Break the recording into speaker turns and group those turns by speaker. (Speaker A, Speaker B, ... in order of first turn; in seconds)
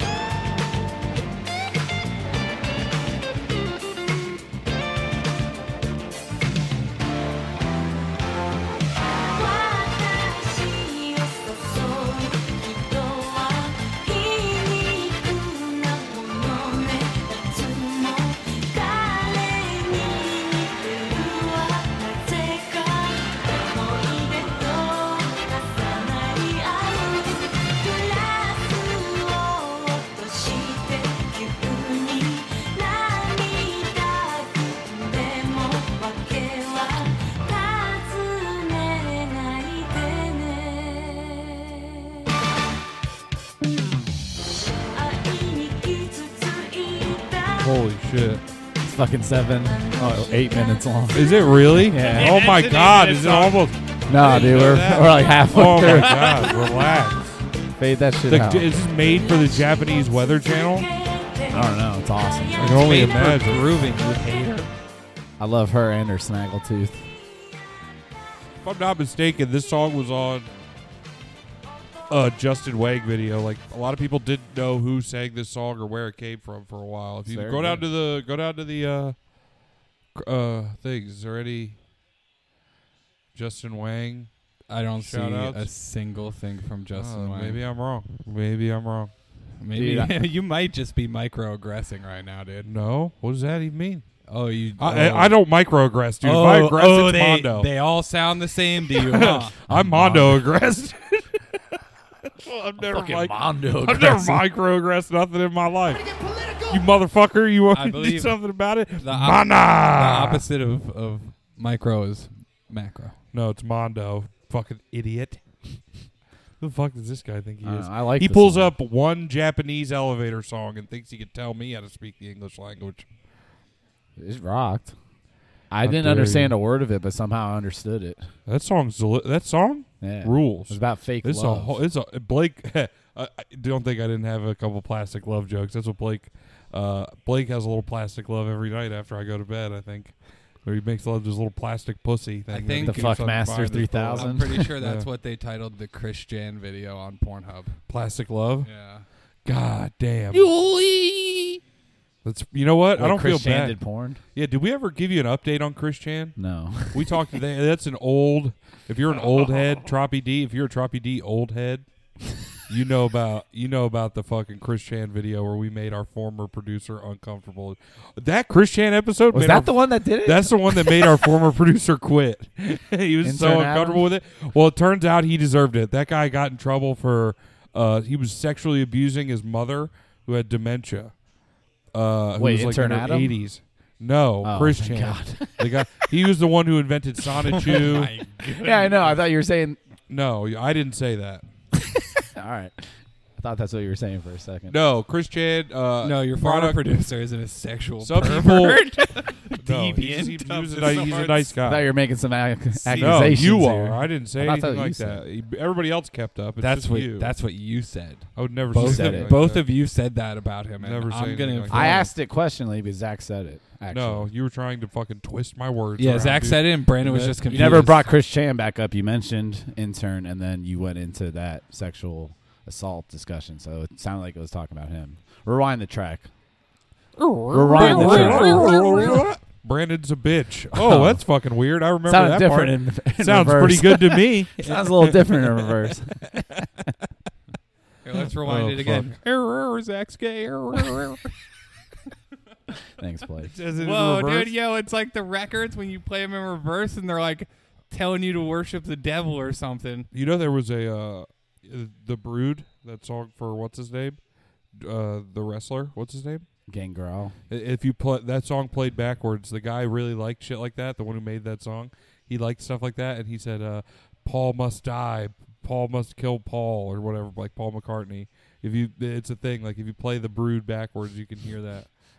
Speaker A: 9.2-42.3, 44.9-47.8, 49.6-52.0, 58.9-64.6
Speaker B: 47.6-48.4, 51.1-57.4, 58.3-60.9, 62.5-63.7, 68.6-70.5, 72.1-79.2, 80.1-81.8, 83.3-84.3, 85.0-85.7, 86.9-89.1, 92.6-94.1, 94.8-97.7, 98.9-106.0, 106.7-110.5, 113.3-115.8, 116.6-123.1, 125.8-126.5, 128.4-145.1, 147.9-148.7, 149.4-150.5, 152.2-153.8, 154.3-161.9, 162.7-181.1, 181.9-188.1, 190.1-191.4, 194.7-196.8, 198.0-201.9, 202.9-207.3, 208.3-209.7, 210.8-212.0, 213.9-217.9, 227.2-236.6, 238.1-241.2, 243.4-244.5, 250.1-254.2, 254.7-256.5, 257.5-271.9
Speaker C: 48.8-51.3, 51.8-52.3, 54.1-56.5, 57.8-58.8, 61.5-62.8, 65.4-67.1, 77.3-77.9, 89.7-90.1, 99.6-100.5, 102.8-104.5, 117.6-118.7, 124.2-124.9, 125.7-128.3, 130.0-131.8, 142.8-144.7, 152.9-154.2, 156.3-157.2, 169.3-171.2, 173.2-174.0, 182.4-183.3, 184.4-186.1, 187.7-189.8, 192.2-194.8, 201.6-205.2, 208.7-209.3, 211.7-214.3, 217.5-226.3, 227.5-229.0, 230.7-231.2, 232.0-236.6, 243.0-243.5, 256.7-257.4
Speaker D: 52.0-54.7, 55.6-56.8, 62.6-64.7, 84.7-87.6, 89.6-92.7, 94.3-95.4, 96.2-99.5, 106.1-106.7, 107.7-108.4, 109.0-113.1, 142.5-147.8, 148.6-149.1, 150.3-151.6, 159.3-159.7, 187.4-189.2, 196.0-201.6, 202.8-203.3, 206.6-212.1, 216.0-218.0, 227.7-229.3, 238.0-239.2, 240.7-241.1, 243.7-250.1